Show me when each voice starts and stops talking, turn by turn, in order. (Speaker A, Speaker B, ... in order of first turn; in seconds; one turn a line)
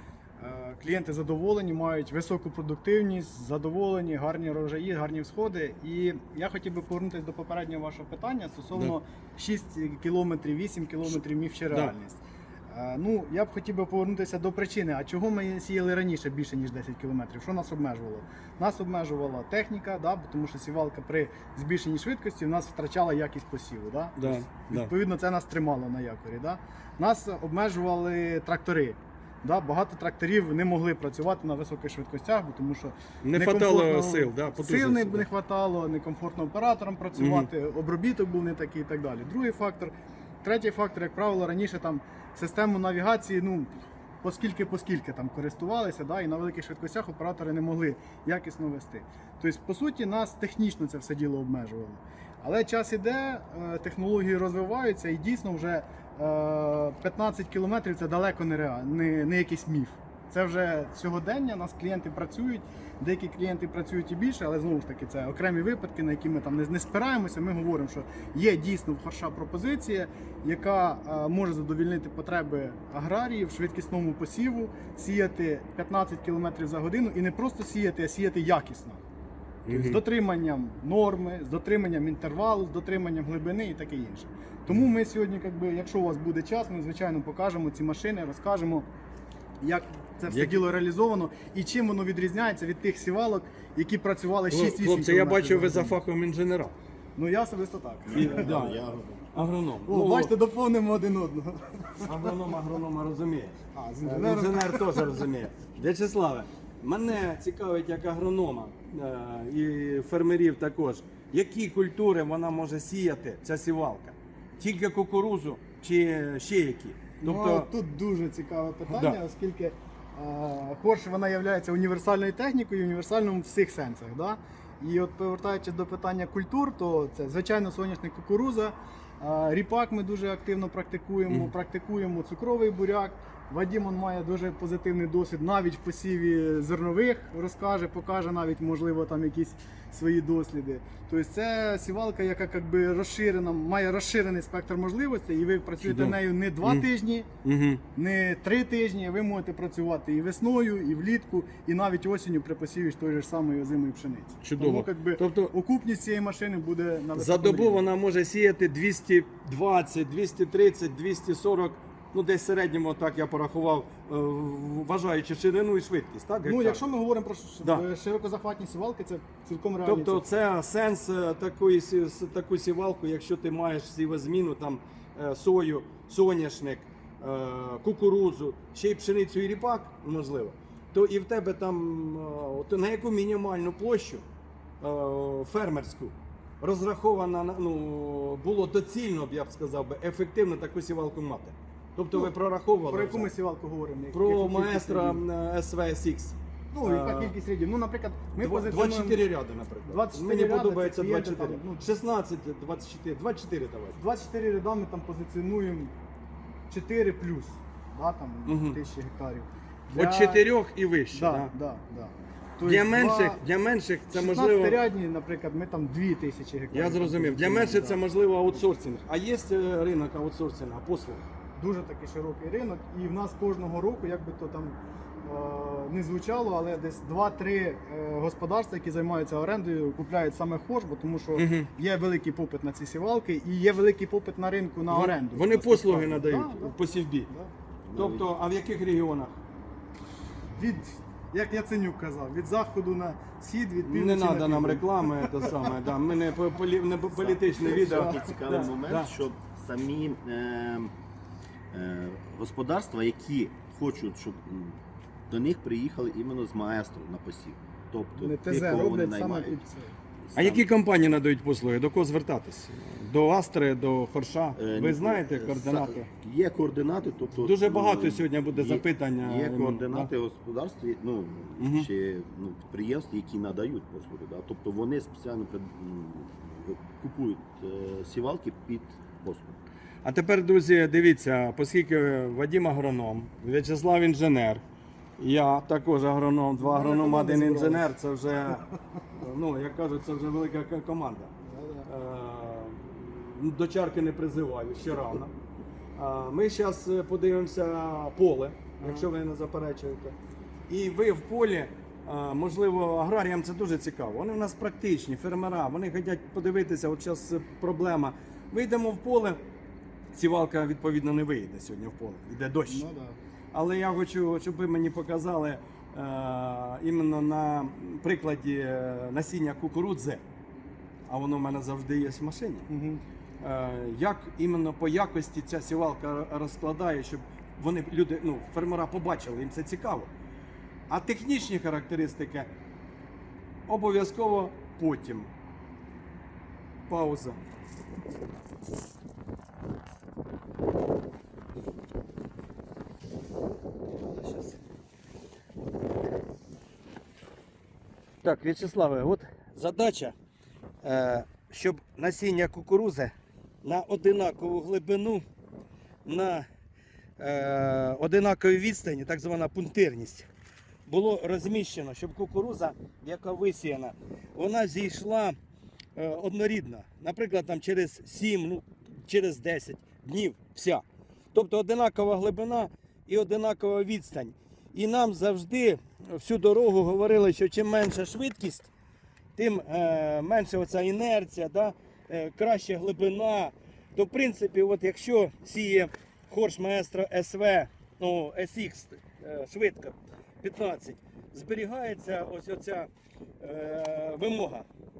Speaker A: 0.4-79.0
Speaker B: 24.2-24.9
Speaker B: 33.2-35.3
Speaker B: 37.2-37.5
Speaker B: 79.7-80.0
Speaker A: 79.7-88.9
Speaker A: 89.6-96.0
Speaker B: 90.3-90.7
Speaker B: 94.5-96.8
Speaker A: 97.2-98.7
Speaker C: 98.1-99.2
Speaker B: 98.1-98.8
Speaker B: 99.3-100.3
Speaker A: 99.9-102.3
Speaker B: 102.0-117.7
Speaker A: 103.7-105.2
Speaker A: 117.2-147.3
Speaker B: 118.9-119.2
Speaker B: 131.3-131.5
Speaker B: 145.8-146.9
Speaker B: 147.4-147.8
Speaker A: 147.9-157.9
Speaker B: 154.4-155.5
Speaker B: 157.2-166.8
Speaker A: 166.4-170.2
Speaker B: 169.8-184.2
Speaker B: 184.8-193.3
Speaker A: 192.9-195.2
Speaker B: 194.1-197.3
Speaker A: 196.7-199.2
Speaker B: 198.4-204.0
Speaker A: 199.8-201.9
Speaker A: 204.0-205.9
Speaker A: 206.7-210.5
Speaker B: 208.5-208.8
Speaker B: 209.9-211.5
Speaker A: 211.1-213.4
Speaker B: 212.6-214.8
Speaker A: 214.1-218.0
Speaker B: 216.7-221.3
Speaker A: 221.6-237.5
Speaker B: 231.3-231.7
Speaker B: 234.9-237.3
Speaker C: 237.8-238.3
Speaker B: 237.9-239.4
Speaker A: 240.6-245.9
Speaker B: 243.8-249.1
Speaker C: 247.2-250.9
Speaker A: 247.7-248.3
Speaker C: 251.7-254.8
Speaker C: 255.3-259.6
Speaker A: 258.2-260.0
Speaker C: 260.2-260.7
Speaker B: 260.4-266.1
Speaker C: 264.6-279.6
Speaker B: 267.4-270.1
Speaker B: 271.6-271.9
Speaker B: 280.0-284.6
Speaker B: 285.2-291.3
Speaker A: 286.6-287.9
Speaker A: 291.5-291.9
Speaker B: 291.9-295.3
Speaker B: 295.9-300.1
Speaker A: 298.8-299.1
Speaker B: 300.7-309.4
Speaker B: 310.1-312.9
Speaker A: 312.7-313.2
Speaker B: 313.5-320.2
Speaker B: 321.1-322.7
Speaker A: 322.7-323.0
Speaker B: 323.4-330.1
Speaker B: 330.9-332.5
Speaker B: 333.7-335.3
Speaker B: 336.9-337.4
Speaker B: 344.0-344.6
Speaker B: 348.2-350.1
Speaker B: 350.8-355.2
Speaker B: 356.1-356.5
Speaker B: 357.2-360.3
Speaker B: 360.9-365.4
Speaker B: 366.0-378.7
Speaker B: 379.4-394.7